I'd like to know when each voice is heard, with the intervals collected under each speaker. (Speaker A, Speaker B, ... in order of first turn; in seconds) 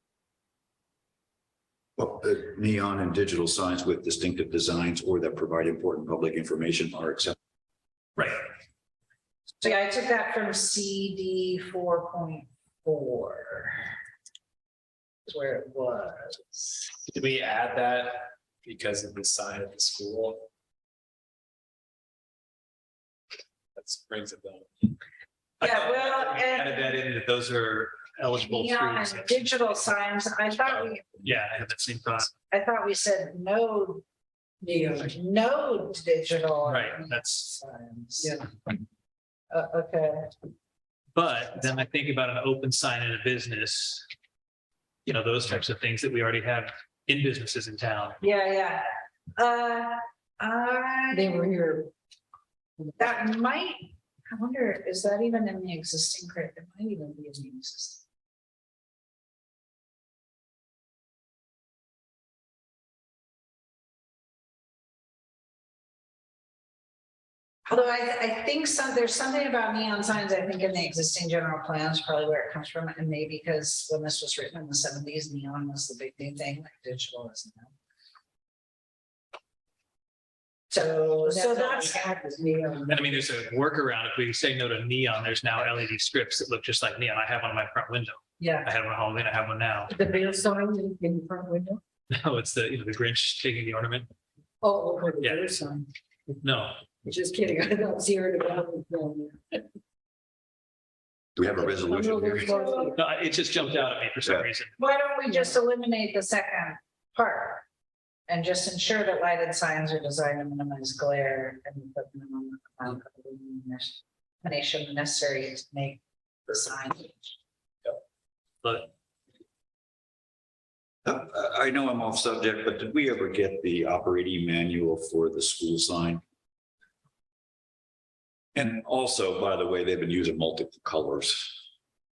Speaker A: 2.0-7.3, 101.3-102.5, 121.0-126.2, 128.5-131.6
Speaker B: 8.2-8.4, 25.6-29.8, 30.6-32.3, 36.6-37.5, 41.1-44.1, 45.0-48.2, 82.9-89.9, 92.1-94.1, 95.2-95.5, 96.4-96.8, 102.9-104.7, 118.6-118.9
Speaker C: 9.6-13.9, 15.3-16.8, 25.6-26.9, 28.4-31.1, 32.5-34.0, 35.0-38.5, 39.5-40.3, 48.2-48.9, 49.4-51.5, 53.0-58.0, 67.7-77.7, 80.7-82.1, 88.4-88.7, 102.4-102.9, 104.8-107.6, 108.3-117.3
Speaker D: 17.1-20.4, 23.7-24.9
Speaker E: 34.6-35.2, 38.2-38.5, 51.1-51.9, 81.2-83.2, 89.9-91.8, 94.6-95.9, 97.0-99.6, 101.5-103.0